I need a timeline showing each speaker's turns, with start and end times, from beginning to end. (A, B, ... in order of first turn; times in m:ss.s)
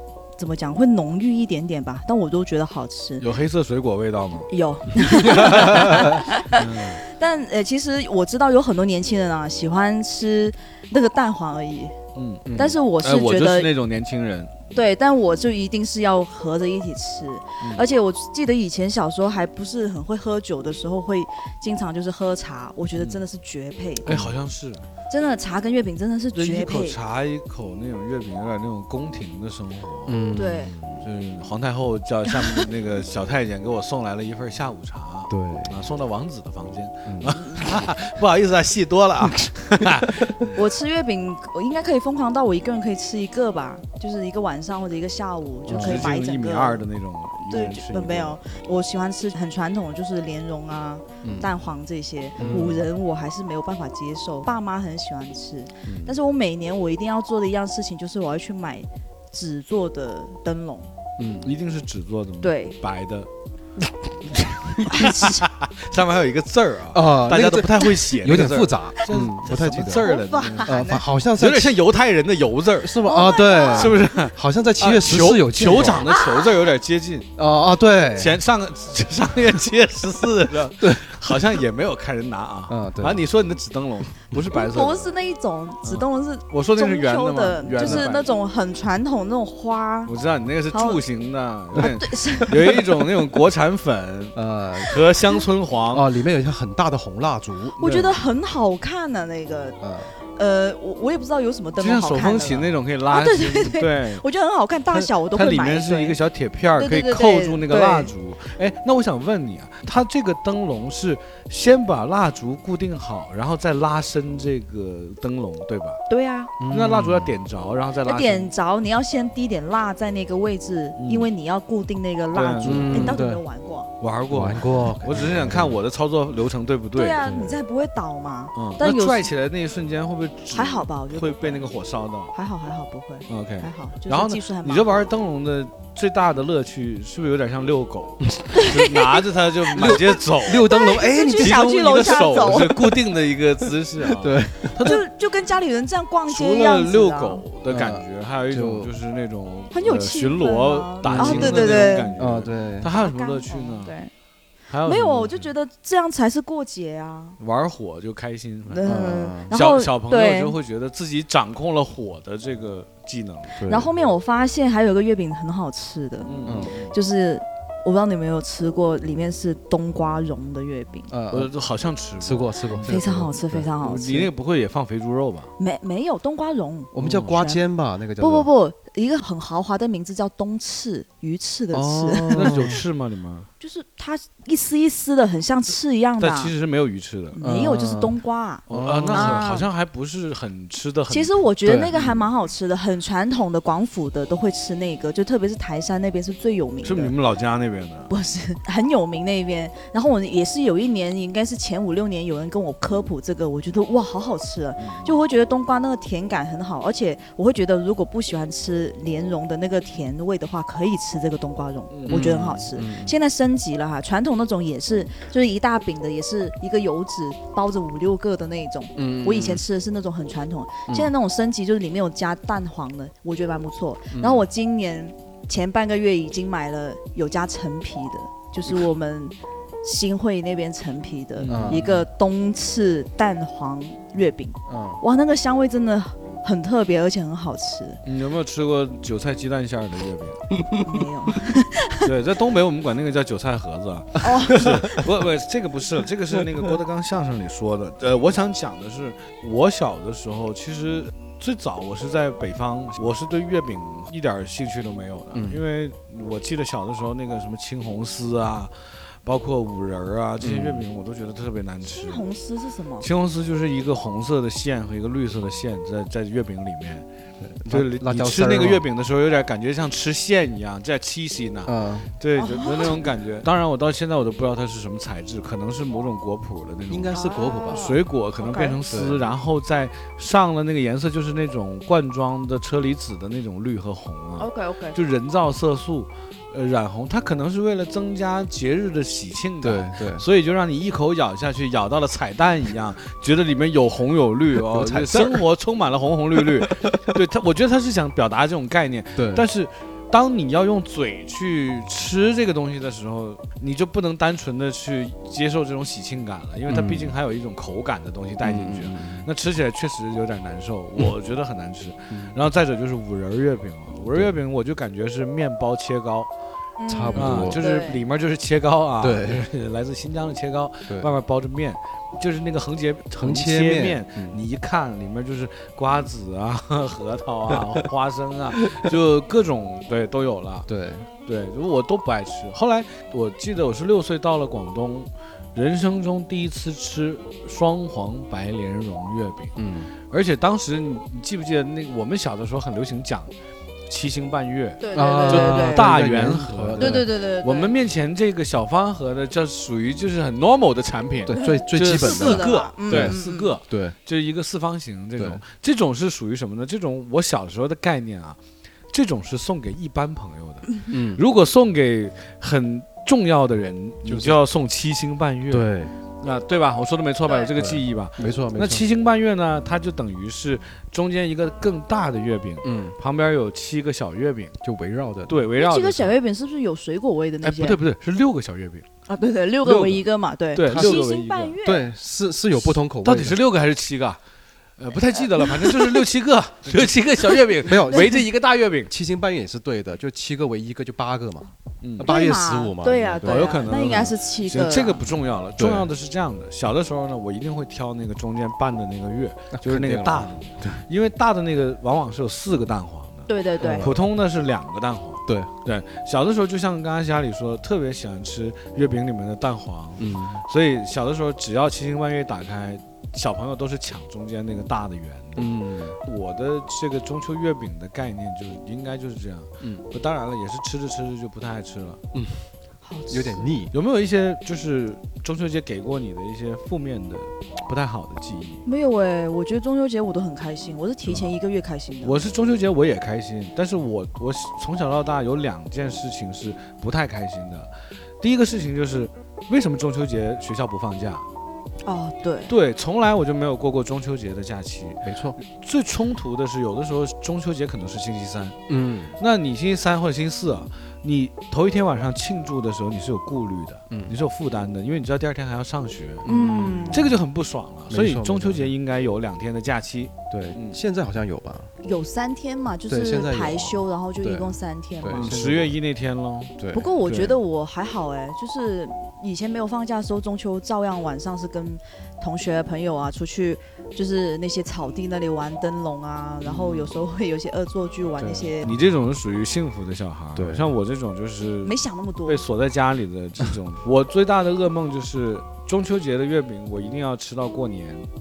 0:00.4-0:03.3 A
0:03.2-0:04.5 B
0:04.5-0:12.0 A
0:05.2-0:07.0 B
0:05.4-0:05.9 C
0:12.2-0:14.6 B
0:12.6-0:13.7 A
0:14.7-0:24.1 A
0:17.6-0:17.9 B
0:23.0-0:23.2 B
0:24.0-0:24.8 B
0:24.1-0:24.4 C
0:25.1-0:27.0 A
0:26.4-0:40.6 B
0:30.1-0:31.0 C
0:30.4-0:30.8 A
0:35.3-0:35.8 C
0:37.1-0:37.4 C
0:37.3-0:37.8 A
0:39.2-0:40.2 C
0:40.5-0:46.8 A
0:45.7-0:46.1 C
0:45.8-0:48.4 B
0:47.4-1:00.9 A
0:51.2-0:51.5 C
0:52.4-0:52.8 B
0:52.4-0:52.8 C
0:55.9-0:56.2 C
1:01.2-1:01.5 C
1:01.4-1:03.3 B
1:02.4-1:02.8 A
1:04.3-1:13.0 B
1:04.9-1:05.4 A
1:06.9-1:10.1 C
1:09.9-1:11.1 A
1:10.6-1:11.8 C
1:12.8-1:16.2 C
1:13.0-1:14.0 A
1:13.7-1:17.3 B
1:16.1-1:16.5 A
1:17.4-1:18.4 C
1:18.2-1:25.1 B
1:20.8-1:21.4 C
1:22.7-1:23.2 C
1:24.5-1:30.1 A
1:25.8-1:28.3 B
1:27.7-1:28.1 C
1:30.1-1:36.1 B
1:30.7-1:31.0 A
1:31.8-1:33.1 A
1:34.4-1:35.0 C
1:35.9-1:37.8 C
1:37.8-1:38.2 B
1:37.8-1:39.8 A
1:39.8-1:40.1 C
1:40.4-1:46.2 A
1:41.8-1:44.2 B
1:45.3-1:56.0 B
1:46.8-1:48.1 A
1:56.1-1:56.5 A
1:56.6-1:57.4 C
1:56.7-1:58.5 B
1:58.0-2:03.9 A
2:01.0-2:01.3 B
2:02.3-2:03.2 B
2:02.6-2:03.4 C
2:04.0-2:07.6 B
2:04.3-2:05.8 C
2:07.0-2:09.3 A
2:08.6-2:12.3 B
2:10.5-2:11.7 A
2:12.3-2:15.0 A
2:13.3-2:20.7 B
2:18.5-2:22.9 A
2:19.7-2:23.0 C
2:21.4-2:25.0 B
2:24.0-2:25.0 C
2:24.8-2:27.4 A
2:26.3-2:34.0 B
2:27.6-2:28.9 C
2:29.7-2:32.1 A
2:31.0-2:32.9 C
2:32.8-2:34.1 A
2:34.7-2:35.5 B
2:34.8-2:37.4 A
2:37.4-2:43.6 B
2:38.7-2:40.6 A
2:38.8-2:39.5 C
2:43.5-2:43.9 C
2:43.7-2:46.3 A
2:46.3-2:47.0 B
2:46.4-2:46.8 C
2:46.9-2:51.1 A
2:51.1-2:51.5 C
2:51.3-2:53.0 B
2:52.2-2:53.7 C
2:52.9-2:54.3 A
2:53.8-2:55.5 B
2:55.6-2:57.6 A
2:56.9-2:58.5 C
2:58.2-3:02.8 A
3:01.7-3:02.8 C
3:02.3-3:03.5 B
3:03.6-3:06.5 A
3:06.2-3:07.4 B
3:07.3-3:09.7 A
3:07.4-3:09.5 C
3:08.7-3:12.3 B
3:11.1-3:17.1 A
3:11.6-3:12.0 C
3:16.8-3:18.1 B
3:18.1-3:58.0 A
3:24.8-3:25.2 B
3:31.9-3:32.6 B
3:32.1-3:33.2 C
3:39.0-3:39.6 C
3:44.1-3:44.4 C
3:51.4-3:52.0 B
3:51.5-3:51.9 C
3:54.7-3:55.0 C
3:58.0-4:00.4 B
4:00.8-4:02.1 A
4:02.0-4:22.2 B
4:04.2-4:04.7 A
4:15.3-4:15.6 C
4:20.4-4:20.8 C
4:21.8-4:23.1 A
4:23.0-4:27.1 B
4:27.4-4:28.8 C
4:27.7-5:16.3 B
4:31.7-4:32.1 C
4:32.4-4:33.2 A
4:36.9-4:37.9 C
4:37.1-4:38.8 A
4:38.9-4:39.3 C
4:44.4-4:45.0 A
4:49.6-4:50.3 C
4:54.6-4:55.4 C
4:56.4-4:57.0 C
4:59.2-4:59.5 C
5:06.7-5:07.2 C
5:08.4-5:09.3 C
5:12.1-5:12.4 C
5:14.1-5:14.4 C
5:16.8-5:18.0 A
5:16.9-5:17.6 C
5:17.2-5:30.7 B
5:19.0-5:19.5 C
5:23.2-5:24.4 C
5:30.7-5:31.1 C
5:31.2-5:39.5 B
5:39.6-5:39.9 C
5:40.1-5:43.3 B
5:43.9-6:05.7 B
5:44.8-5:45.9 A
5:44.9-5:47.1 C
5:46.8-5:47.7 A
5:51.2-5:54.0 C
5:51.4-5:53.6 A
5:55.2-5:55.4 C
6:00.9-6:01.2 C
6:04.0-6:04.4 C
6:05.5-6:05.9 C
6:06.2-6:14.6 B
6:07.6-6:08.9 C
6:12.6-6:13.0 C
6:14.6-6:15.4 C
6:15.3-6:16.2 B
6:15.6-6:17.8 A
6:17.4-6:18.9 B
6:19.1-6:21.9 A
6:19.6-6:21.6 B
6:20.6-6:21.0 C
6:21.6-6:23.4 C
6:22.6-6:24.2 B
6:24.8-6:28.9 B
6:27.6-6:28.3 C
6:28.9-6:34.1 C
6:31.8-6:32.2 B
6:32.0-6:35.0 A
6:33.2-6:43.3 B
6:35.6-6:35.9 C
6:39.5-6:40.8 C
6:43.3-6:44.0 A
6:43.6-6:44.0 C
6:43.8-6:55.5 B
6:50.0-6:50.4 C
6:55.4-6:56.0 C
6:56.0-7:02.0 B
7:02.1-7:02.4 C
7:02.8-7:03.5 A
7:03.1-7:03.7 C
7:03.7-7:08.6 B
7:08.6-7:12.3 A
7:12.0-7:21.2 B
7:21.8-7:22.5 A
7:22.5-7:28.6 B
7:25.0-7:25.4 C
7:28.7-7:29.2 C
7:29.2-7:36.3 B
7:33.9-7:34.2 C
7:36.2-7:37.2 C
7:36.3-7:37.1 A
7:36.9-7:40.8 B
7:37.9-7:38.7 C
7:40.3-7:41.7 C
7:41.8-7:45.4 A
7:42.9-7:45.8 C
7:45.1-7:46.5 B
7:46.6-7:47.4 C
7:46.7-7:58.7 A
7:56.4-7:56.9 B
7:58.2-7:58.5 C
7:58.6-8:08.1 B
8:00.4-8:00.7 C
8:01.6-8:02.4 A